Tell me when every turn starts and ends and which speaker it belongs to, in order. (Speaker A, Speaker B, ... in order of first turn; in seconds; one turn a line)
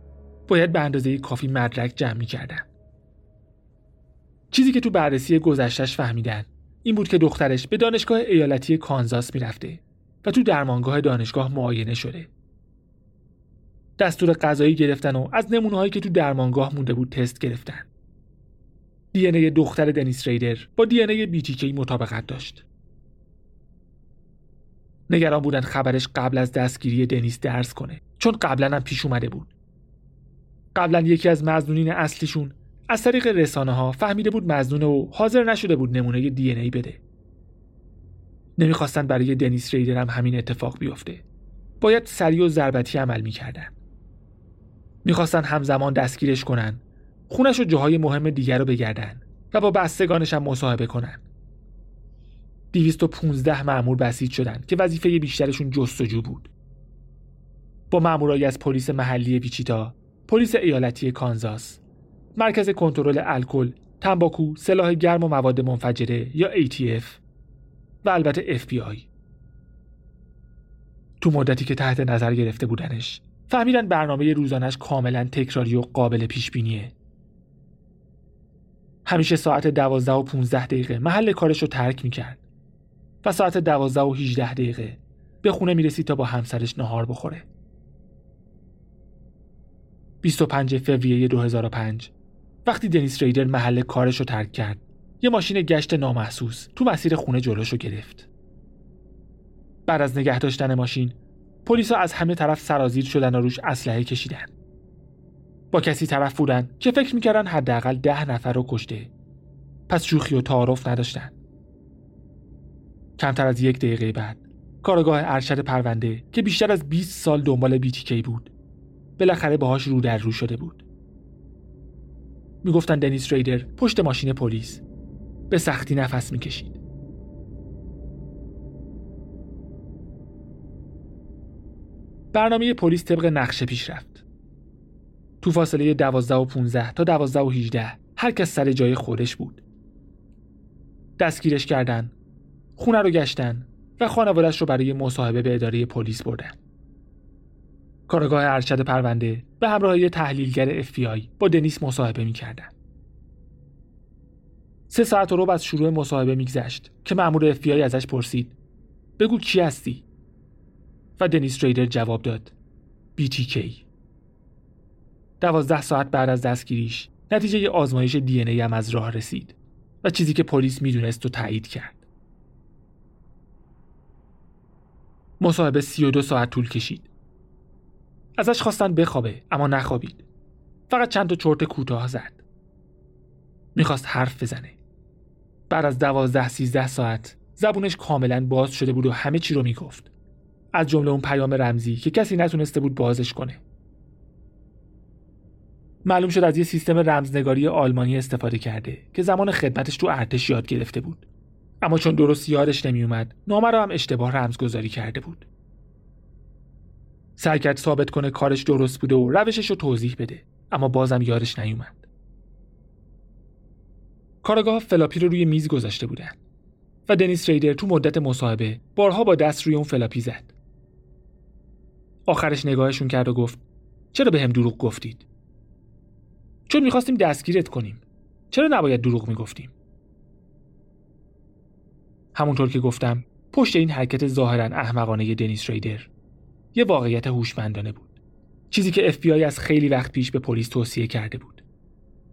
Speaker A: 0.5-2.7
Speaker A: 4.5-12.3
Speaker A: 14.0-17.9
Speaker A: 19.1-22.6
Speaker A: 25.1-29.5
Speaker A: 30.7-37.0
Speaker A: 38.6-41.2
Speaker A: 41.8-43.7
Speaker A: 45.0-51.2
Speaker A: 52.7-56.5
Speaker A: 57.9-61.8
Speaker A: 62.4-67.2
Speaker A: 68.0-69.1
Speaker A: 71.2-76.9
Speaker A: 79.0-82.4
Speaker A: 83.2-87.5
Speaker A: 90.2-92.1
Speaker A: 92.6-98.3
Speaker A: 99.9-104.5
Speaker A: 105.7-109.1
Speaker A: 109.9-111.3
Speaker A: 113.2-118.5
Speaker A: 119.2-120.8
Speaker A: 122.6-124.8
Speaker A: 125.5-126.8
Speaker A: 132.3-134.2
Speaker A: 135.4-139.6
Speaker A: 141.2-142.1
Speaker A: 142.8-146.6
Speaker A: 148.1-152.7
Speaker A: 154.9-158.6
Speaker A: 159.2-160.0
Speaker A: 161.2-162.5
Speaker A: 163.2-163.8
Speaker A: 165.4-172.0
Speaker A: 175.4-177.1
Speaker A: 178.4-180.2
Speaker A: 180.9-182.4
Speaker A: 183.7-184.8
Speaker A: 185.7-190.1
Speaker A: 190.7-193.6
Speaker A: 196.0-201.2
Speaker A: 201.8-205.5
Speaker A: 207.4-212.0
Speaker A: 214.4-216.4
Speaker A: 217.1-220.5
Speaker A: 222.3-223.6
Speaker A: 224.1-225.2
Speaker A: 226.7-229.7
Speaker A: 232.3-236.1
Speaker A: 236.7-238.1
Speaker A: 238.7-241.6